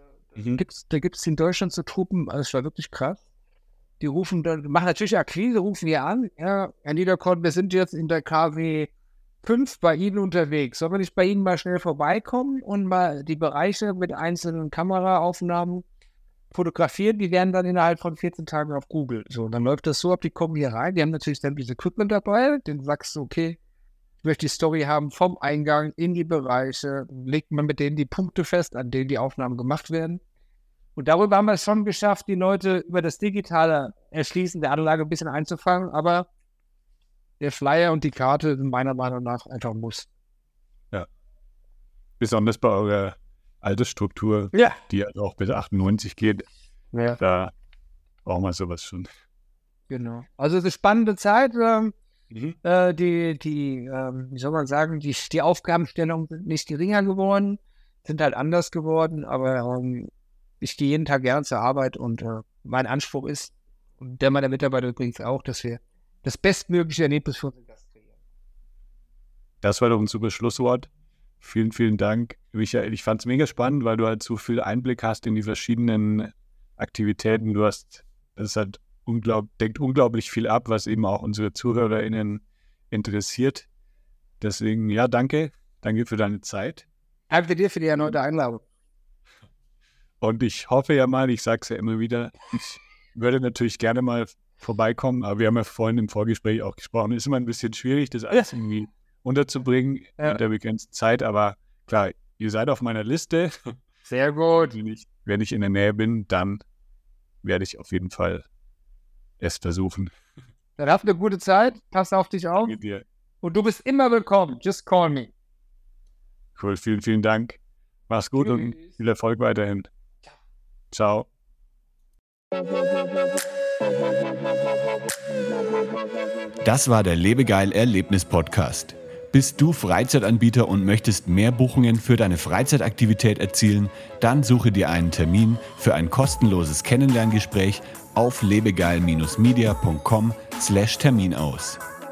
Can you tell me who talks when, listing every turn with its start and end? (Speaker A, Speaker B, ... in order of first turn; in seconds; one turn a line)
Speaker A: 0.5-3.2
Speaker A: 4.0-8.9
Speaker A: 9.4-15.8
Speaker A: 16.5-23.6
Speaker A: 24.2-30.2
Speaker A: 30.9-36.3
Speaker A: 37.4-40.1
Speaker B: 42.2-46.5
Speaker A: 44.5-44.8
Speaker A: 46.9-47.2
Speaker B: 47.2-47.5
Speaker B: 48.2-49.1
Speaker A: 49.9-51.9
Speaker B: 52.3-52.5
Speaker A: 52.6-68.1
Speaker B: 69.6-70.9
Speaker B: 71.4-83.7
Speaker B: 84.4-86.8
Speaker A: 87.3-88.6
Speaker B: 90.2-103.7
Speaker A: 104.0-104.8
Speaker B: 104.6-106.6
Speaker B: 107.4-108.5
Speaker B: 109.4-110.1
Speaker A: 110.8-112.7
Speaker B: 112.6-113.0
Speaker A: 113.4-115.3
Speaker B: 116.5-119.9
Speaker A: 118.4-118.7
Speaker B: 120.9-121.3
Speaker C: 126.6-141.8